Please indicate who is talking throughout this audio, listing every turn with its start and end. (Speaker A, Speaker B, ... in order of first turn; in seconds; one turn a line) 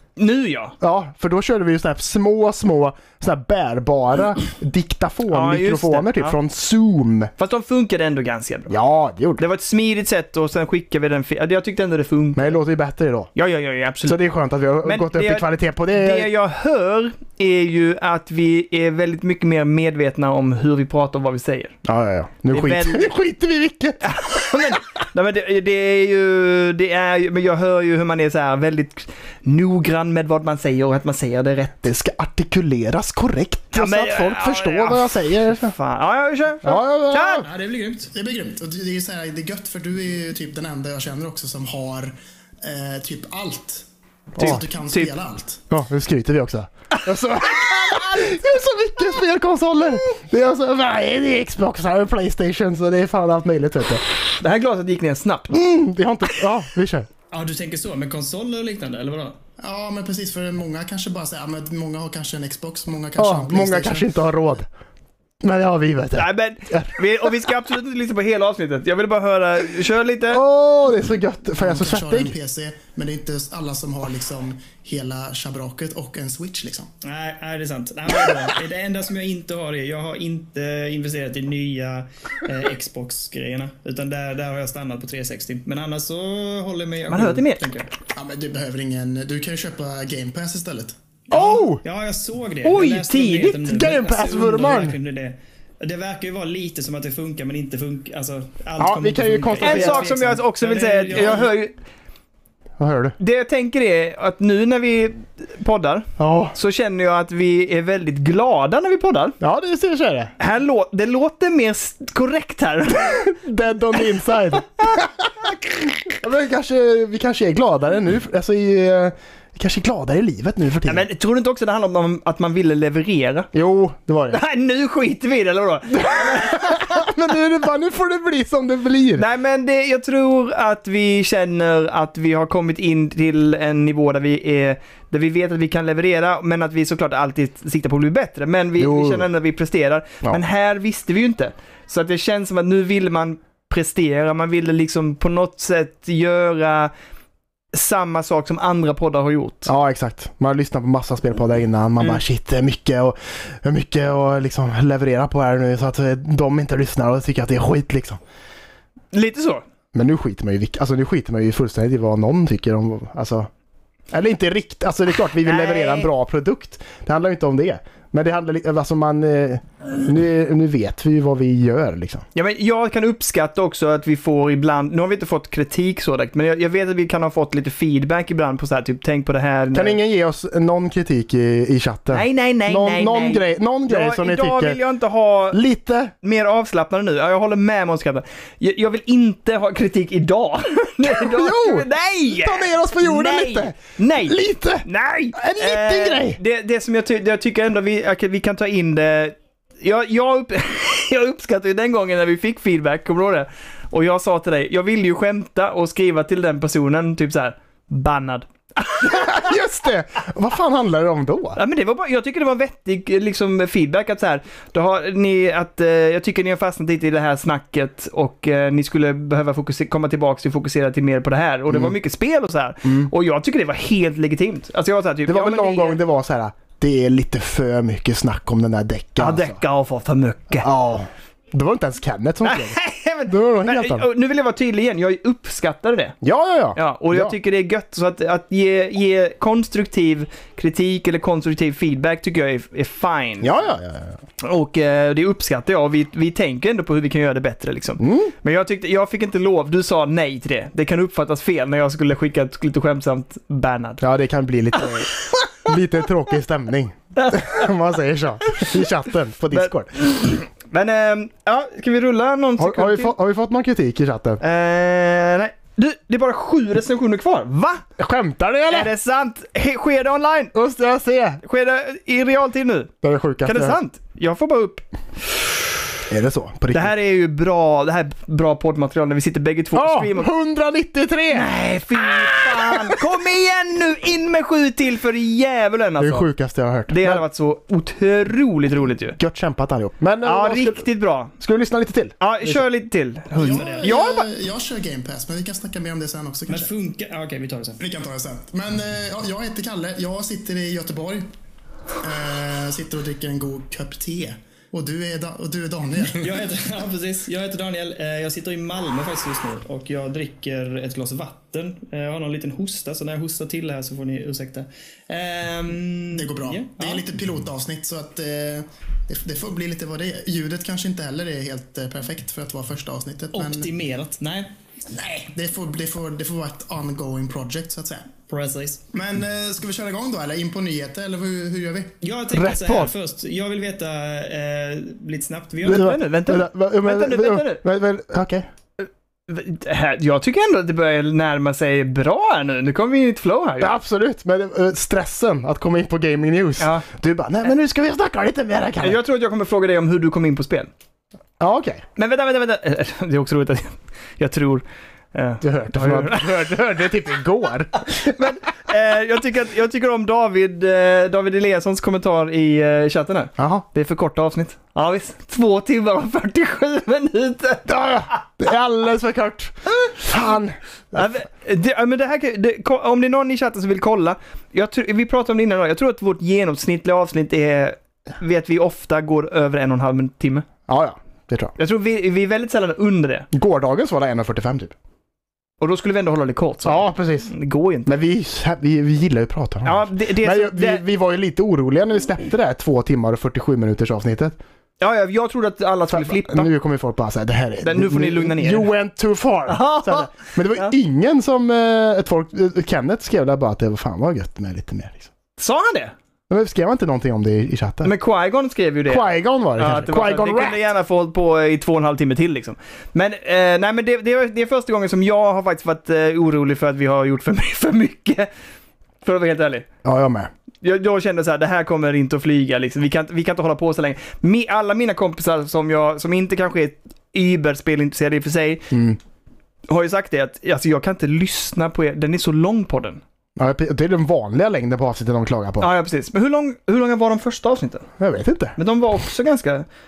Speaker A: 0.2-0.8
Speaker B: 0.8-7.3
Speaker A: 5.3-6.3
Speaker A: 7.4-8.8
Speaker B: 8.7-9.4
Speaker A: 9.4-12.6
Speaker B: 12.3-13.3
Speaker A: 13.3-14.2
Speaker B: 14.0-16.3
Speaker A: 14.8-21.7
Speaker B: 21.8-24.0
Speaker A: 22.5-23.1
Speaker A: 24.0-31.8
Speaker B: 31.8-35.7
Speaker A: 33.7-37.5
Speaker B: 36.6-37.5
Speaker C: 37.4-45.6
Speaker B: 44.4-44.6
Speaker A: 44.4-45.1
Speaker B: 45.7-54.0
Speaker A: 54.4-55.6
Speaker B: 55.5-57.1
Speaker D: 57.3-59.4
Speaker C: 59.6-64.1
Speaker B: 63.2-64.7
Speaker B: 65.4-67.2
Speaker A: 66.1-70.4
Speaker B: 70.3-72.3
Speaker C: 71.5-76.9
Speaker D: 77.0-87.9
Speaker A: 87.1-87.6
Speaker C: 88.1-90.9
Speaker D: 91.3-101.5
Speaker B: 91.3-91.8
Speaker A: 92.6-93.6
Speaker B: 93.7-95.0
Speaker B: 98.8-100.1
Speaker A: 99.6-101.7
Speaker B: 102.8-103.2
Speaker A: 103.2-109.4
Speaker B: 106.2-106.5
Speaker B: 109.4-110.3
Speaker A: 110.4-113.3
Speaker B: 113.0-115.3
Speaker B: 115.8-121.0
Speaker A: 120.8-123.5
Speaker B: 123.5-124.4
Speaker A: 124.3-127.0
Speaker B: 126.0-129.2
Speaker A: 129.2-146.9
Speaker B: 138.8-139.3
Speaker A: 147.7-149.7
Speaker B: 149.7-158.2
Speaker A: 159.1-159.6
Speaker B: 159.9-163.5
Speaker B: 164.1-172.2
Speaker A: 165.4-166.1
Speaker A: 172.3-180.0
Speaker B: 179.7-184.8
Speaker A: 182.1-185.6
Speaker B: 185.5-186.1
Speaker A: 186.2-209.5
Speaker B: 191.0-196.4
Speaker B: 209.0-211.6
Speaker A: 211.6-226.0
Speaker B: 221.7-221.9
Speaker B: 222.8-223.1
Speaker B: 225.2-229.6
Speaker A: 229.2-230.7
Speaker B: 230.6-234.1
Speaker A: 232.4-236.2
Speaker B: 236.2-237.3
Speaker A: 236.8-243.6
Speaker B: 243.4-244.2
Speaker A: 244.4-254.0
Speaker B: 248.0-248.3
Speaker B: 254.0-259.9
Speaker A: 257.1-257.7
Speaker A: 259.5-263.1
Speaker B: 262.6-264.4
Speaker A: 264.4-267.8
Speaker B: 268.0-268.9
Speaker A: 268.7-270.5
Speaker B: 270.5-271.4
Speaker A: 271.4-272.9
Speaker B: 273.0-273.8
Speaker A: 273.4-275.5
Speaker B: 276.1-276.9
Speaker A: 276.7-280.3
Speaker B: 279.7-281.5
Speaker A: 281.3-286.3
Speaker B: 282.2-282.9
Speaker B: 286.0-287.2
Speaker A: 286.9-289.2
Speaker B: 289.2-290.9
Speaker A: 290.2-291.3
Speaker B: 291.4-292.6
Speaker A: 292.2-294.3
Speaker C: 293.3-296.7
Speaker D: 293.4-293.9
Speaker D: 296.5-297.8
Speaker C: 297.8-301.3
Speaker C: 302.0-306.4
Speaker D: 306.2-317.1
Speaker C: 316.1-323.7
Speaker D: 323.3-324.5
Speaker C: 324.9-328.1
Speaker D: 328.3-328.8
Speaker C: 328.9-332.0
Speaker D: 332.0-335.9
Speaker B: 332.3-332.9
Speaker B: 335.6-338.4
Speaker A: 335.6-337.6
Speaker A: 338.8-343.8
Speaker B: 343.6-349.0
Speaker A: 346.6-346.8
Speaker A: 348.8-350.7
Speaker B: 351.4-351.8
Speaker A: 351.9-356.5
Speaker B: 355.4-358.2
Speaker A: 357.8-367.8
Speaker B: 363.4-363.6
Speaker B: 367.7-371.1
Speaker A: 370.9-380.4
Speaker B: 380.7-381.5
Speaker A: 381.6-383.3
Speaker B: 383.3-384.7
Speaker A: 385.6-387.9
Speaker B: 386.6-387.3
Speaker B: 387.9-394.4
Speaker A: 389.6-390.8
Speaker A: 394.8-396.5
Speaker B: 395.9-405.1
Speaker A: 397.6-398.7
Speaker A: 399.5-400.7
Speaker A: 405.4-405.9
Speaker B: 406.3-407.9
Speaker A: 407.8-418.3
Speaker B: 408.9-410.6
Speaker A: 419.0-419.7
Speaker B: 419.8-420.3
Speaker A: 420.6-428.7
Speaker B: 428.7-429.0
Speaker A: 429.7-433.0
Speaker B: 433.4-435.7
Speaker A: 435.6-437.9
Speaker B: 438.0-438.6
Speaker A: 438.6-439.6